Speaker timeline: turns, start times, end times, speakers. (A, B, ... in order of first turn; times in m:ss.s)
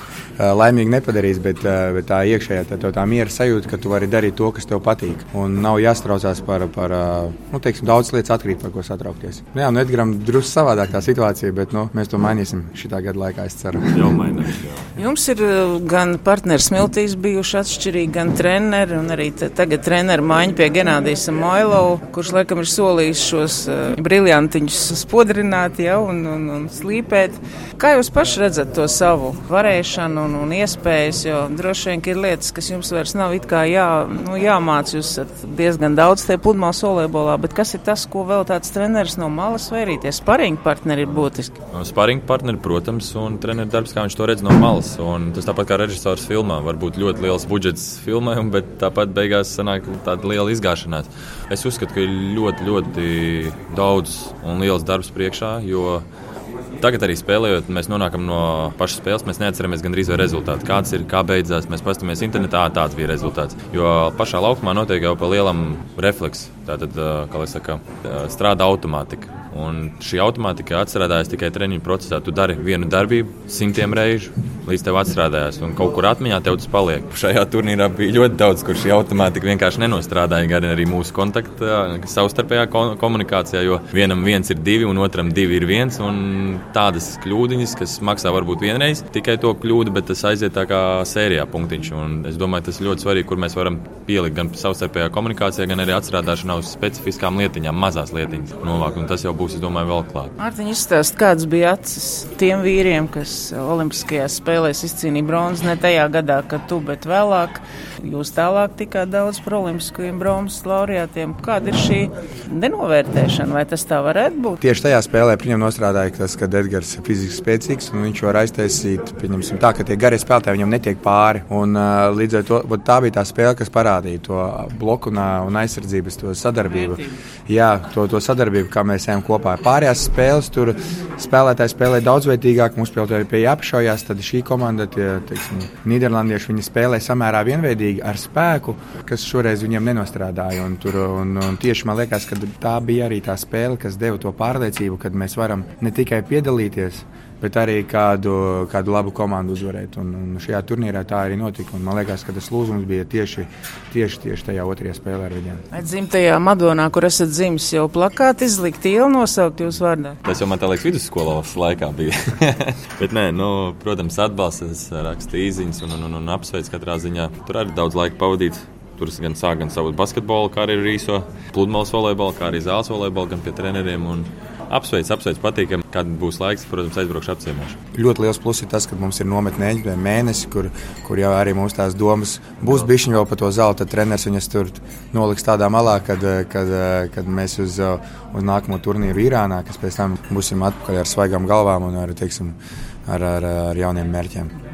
0:00.4-0:14.2 A
0:13.9-0:14.9 B
0:15.0-0:41.6 C
0:41.7-0:56.0 B
0:56.8-1:40.3 B
1:40.4-1:54.6 C
1:54.6-2:35.6 A
2:35.7-2:40.2 C
2:40.2-2:57.8 B
2:57.9-3:12.6 A
3:13.1-3:14.5 A